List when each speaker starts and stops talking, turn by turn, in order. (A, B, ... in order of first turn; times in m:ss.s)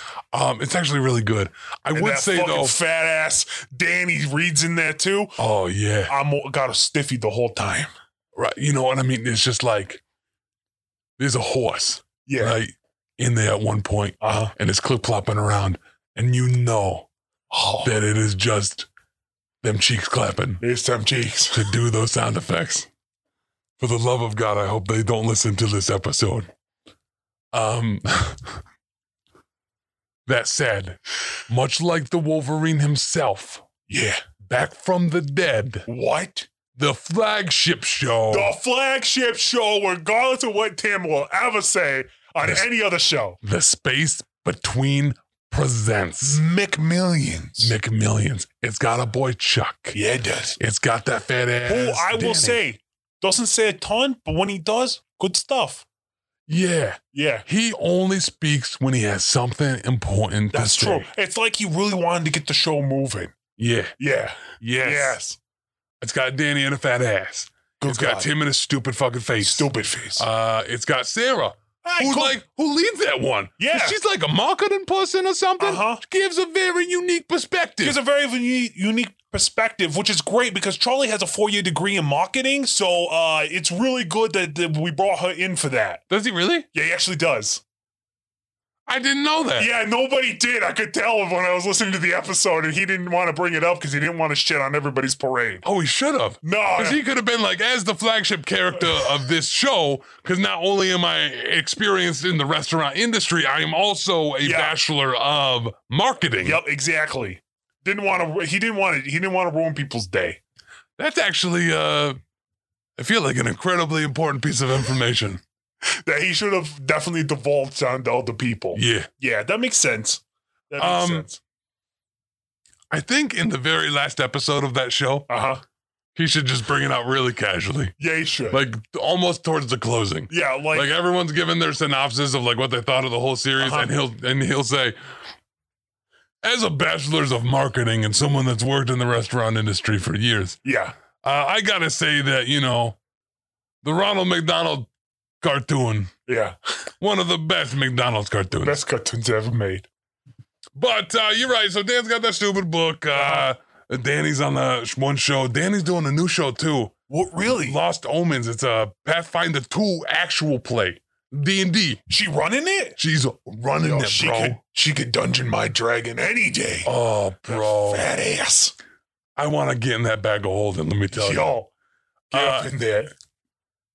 0:00.3-0:02.8 A
0:01.9-0:05.4 B
0:05.4-0:06.2 A
0:06.1-0:07.9 B
0:08.4-0:10.0 A
0:11.2-0:17.1 A
0:12.2-0:12.6 B
0:14.2-0:14.5 B
0:17.5-0:18.0 B
0:17.8-0:18.9 A
0:19.6-0:20.6 A
0:20.6-0:21.8 B
0:21.5-0:22.9 A
0:23.8-0:26.5 A
0:27.5-0:28.6 A
0:30.3-0:33.6 A
0:33.9-0:34.2 B
0:34.4-0:35.9 A
0:35.9-0:36.5 B
0:36.8-0:38.5 A
0:38.3-0:43.4 B
0:43.4-0:46.4 A
0:46.2-0:47.7 B
0:47.6-0:50.0 A
0:49.9-0:50.6 B
0:50.6-0:52.6 A
0:51.6-0:55.8 B
0:56.5-1:01.1 A
0:57.1-0:57.5 B
1:00.5-1:03.4 B
1:03.6-1:04.0 A
1:04.0-1:05.4 B
1:04.6-1:05.2 A
1:06.0-1:18.0 A
1:07.8-1:08.3 B
1:09.4-1:10.2 B
1:11.8-1:12.4 B
1:13.6-1:14.0 B
1:15.6-1:16.0 B
1:17.8-1:26.0 B
1:26.1-1:26.7 A
1:26.7-1:27.6 B
1:28.9-1:29.7 A
1:29.6-1:35.7 B
1:35.6-1:46.6 A
1:36.4-1:37.0 B
1:44.4-1:44.8 B
1:46.4-1:50.4 B
1:51.0-1:52.2 A
1:53.0-1:55.4 A
1:56.0-2:01.4 B
1:58.7-1:59.1 A
2:00.8-2:01.3 A
2:02.9-2:05.3 A
2:05.3-2:05.6 B
2:06.2-2:08.0 A
2:08.0-2:08.6 B
2:08.5-2:15.0 A
2:10.3-2:10.9 B
2:13.6-2:13.9 B
2:16.4-2:20.6 A
2:20.6-2:21.0 B
2:21.2-2:23.0 A
2:23.8-2:24.9 A
2:25.4-2:26.1 A
2:26.3-2:26.6 B
2:27.0-2:28.8 A
2:28.6-2:29.9 B
2:30.8-2:36.9 A
2:33.1-2:33.5 B
2:37.1-2:37.8 B
2:37.5-2:42.0 A
2:42.1-2:43.0 B
2:43.0-2:44.6 A
2:43.8-2:46.9 B
2:46.8-2:48.1 A
2:47.5-2:48.8 B
2:49.4-2:51.5 A
2:51.1-2:51.7 B
2:52.3-2:52.7 A
2:52.3-2:53.1 B